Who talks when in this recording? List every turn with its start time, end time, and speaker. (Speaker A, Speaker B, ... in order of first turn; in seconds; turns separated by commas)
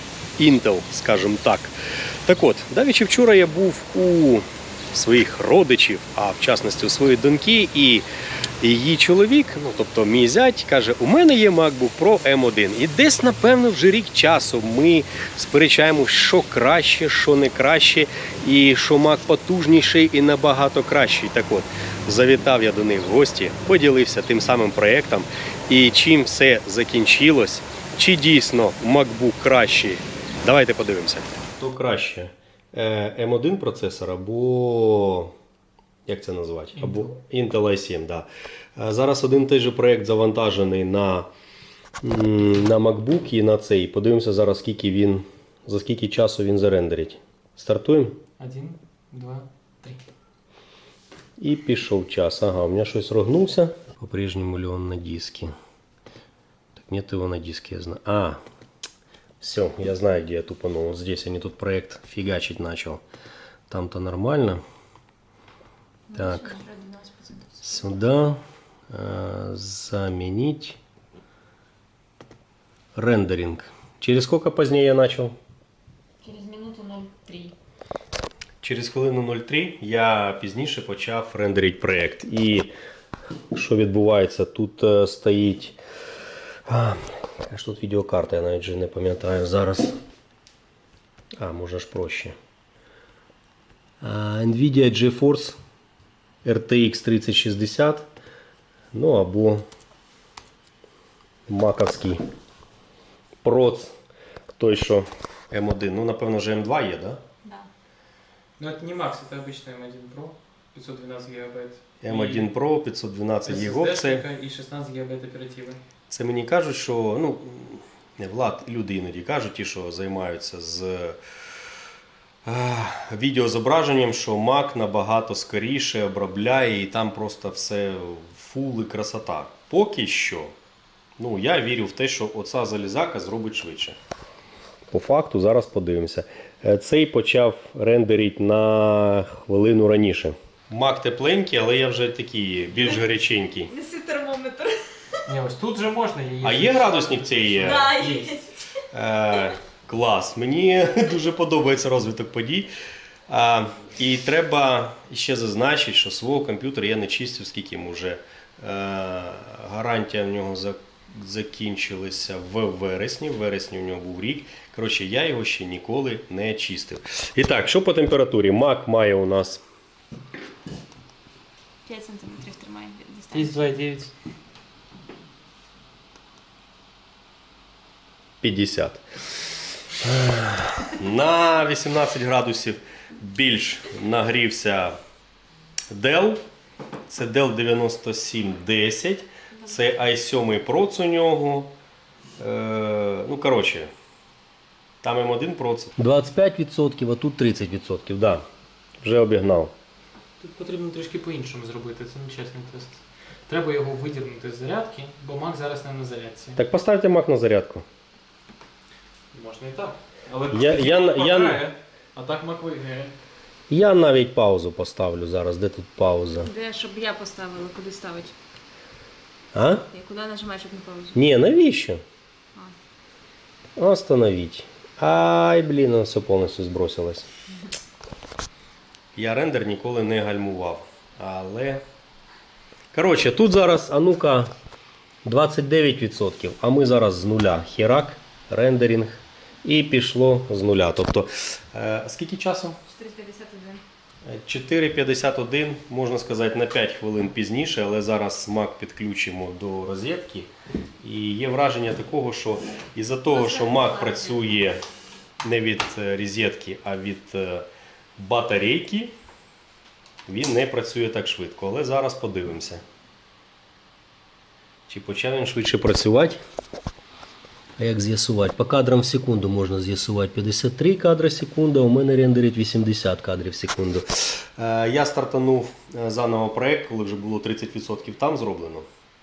Speaker A: 0.4-8.1, Speaker A: 8.6-35.3, Speaker A: 36.1-41.3, Speaker B: 36.8-37.1, Speaker A: 42.0-48.2, Speaker B: 48.4-50.0, Speaker A: 51.4-55.5, Speaker A: 56.8-58.4, Speaker A: 59.4-63.0, Speaker A: 63.7-64.6, Speaker C: 66.1-67.8, Speaker A: 66.2-66.6, Speaker A: 67.6-70.8, Speaker A: 73.0-75.3, Speaker C: 76.2-77.5, Speaker A: 78.6-82.7, Speaker A: 83.5-85.8, Speaker A: 86.7-90.0, Speaker A: 91.4-92.3, Speaker A: 94.0-95.6, Speaker A: 96.5-98.1, Speaker A: 98.9-99.6, Speaker A: 101.5-102.2, Speaker A: 103.4-103.9, Speaker A: 104.6-107.2, Speaker B: 108.6-112.5, Speaker A: 112.0-114.3, Speaker B: 113.5-115.8, Speaker A: 116.1-121.2, Speaker A: 122.5-130.5, Speaker A: 131.2-134.0, Speaker A: 134.9-143.7, Speaker C: 143.7-145.2, Speaker B: 145.3-148.3, Speaker A: 146.4-148.0, Speaker C: 147.6-148.6, Speaker A: 148.9-152.7, Speaker A: 153.3-169.6, Speaker C: 171.8-173.7, Speaker B: 173.3-174.1, Speaker A: 178.4-179.0, Speaker A: 180.0-185.0, Speaker A: 185.9-186.4, Speaker A: 187.1-191.7, Speaker A: 192.4-193.9, Speaker A: 195.0-198.4, Speaker A: 199.0-199.7, Speaker B: 200.4-206.6, Speaker A: 206.6-207.8, Speaker B: 209.3-213.1, Speaker A: 210.5-211.7, Speaker A: 213.7-216.5, Speaker C: 216.4-218.3, Speaker A: 219.5-219.9, Speaker C: 219.9-221.2, Speaker A: 221.1-222.0, Speaker A: 223.8-227.3, Speaker A: 229.2-231.8, Speaker A: 232.9-234.5, Speaker A: 235.2-242.8, Speaker C: 242.9-243.8, Speaker A: 244.3-250.5, Speaker A: 251.0-254.8, Speaker C: 253.3-254.5, Speaker A: 255.4-257.7, Speaker A: 258.2-259.1, Speaker A: 260.3-262.8, Speaker A: 264.9-266.4, Speaker A: 267.8-278.9